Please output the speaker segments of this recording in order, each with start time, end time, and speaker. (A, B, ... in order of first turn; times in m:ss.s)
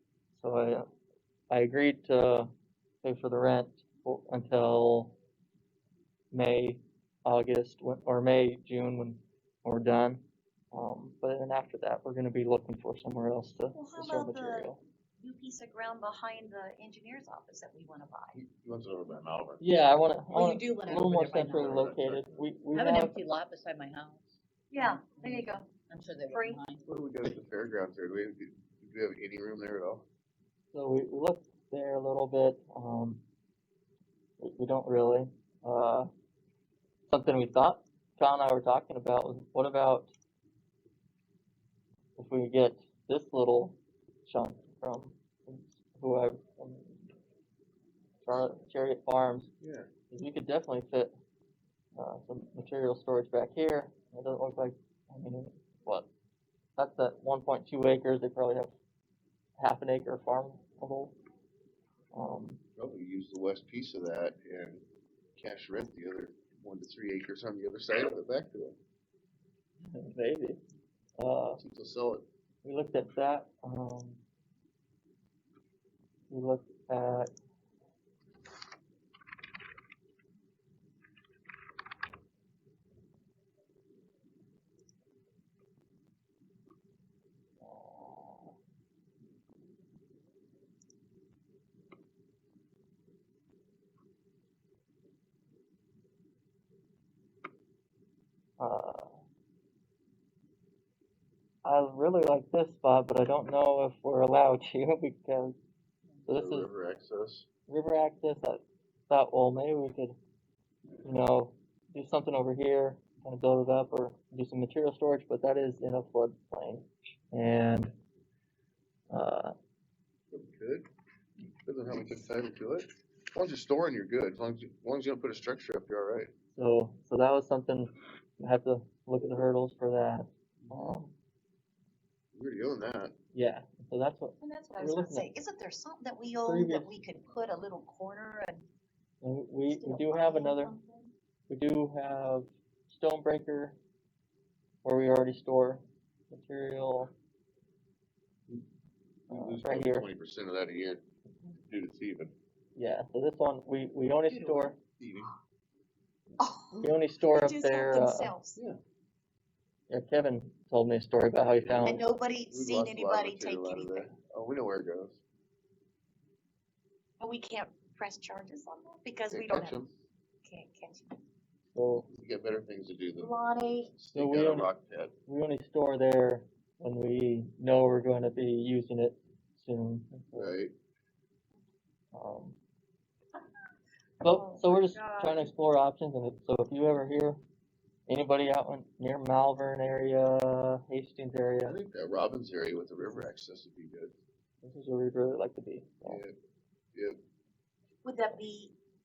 0:00.3-0:00.9 A
0:01.5-0:02.5 A
0:03.0-0:05.1 A
0:06.3-0:14.8 A
0:13.7-0:18.4 B
0:18.3-0:19.6 C
0:19.6-0:23.2 A
0:20.3-0:21.8 D
0:21.7-0:22.4 C
0:22.7-0:26.8 D
0:24.7-0:25.7 B
0:26.3-0:26.6 B
0:26.8-0:30.0 C
0:30.7-0:33.2 A
0:34.4-0:36.1 A
0:37.1-0:40.1 A
0:42.2-0:47.1 A
0:48.2-0:49.5 A
0:49.6-0:49.9 C
0:50.1-0:51.1 A
0:51.9-0:56.1 A
0:56.8-0:58.7 A
0:59.6-1:01.2 A
1:02.1-1:02.6 A
1:02.8-1:04.8 C
1:05.4-1:08.8 C
1:09.8-1:10.6 A
1:11.2-1:11.6 A
1:11.6-1:12.2 C
1:12.6-1:14.2 A
1:16.3-1:17.3 A
1:27.7-1:28.5 A
1:38.6-1:39.2 A
1:41.6-1:45.6 A
1:46.3-1:46.7 A
1:46.3-1:47.5 C
1:47.7-1:50.2 A
1:51.0-1:57.9 A
1:59.1-1:59.5 A
2:00.3-2:00.9 C
2:01.6-2:06.3 C
2:06.5-2:11.1 A
2:10.6-2:10.9 C
2:12.3-2:13.1 C
2:13.3-2:15.3 A
2:14.4-2:18.6 B
2:16.4-2:16.9 A
2:19.2-2:20.7 A
2:19.7-2:21.1 B
2:21.5-2:23.8 A
2:24.8-2:27.1 A
2:29.3-2:32.3 C
2:29.3-2:30.1 A
2:32.8-2:34.8 A
2:34.3-2:35.3 C
2:36.4-2:38.6 B
2:36.8-2:38.3 A
2:39.9-2:42.0 A
2:41.4-2:45.2 C
2:41.8-2:44.1 B
2:47.2-2:49.8 B
2:49.3-2:49.9 C
2:50.4-2:51.2 B
2:51.7-2:52.1 A
2:52.0-2:53.3 C
2:53.2-2:53.9 B
2:54.0-2:55.1 C
2:54.1-2:54.7 A
2:55.3-3:00.6 A
3:00.4-3:00.7 C
3:02.1-3:02.6 A
3:04.2-3:07.4 A
3:04.2-3:05.5 B
3:08.1-3:11.8 A
3:11.7-3:14.1 C
3:13.0-3:13.3 A
3:14.6-3:16.2 A
3:16.0-3:16.3 C
3:18.0-3:18.7 B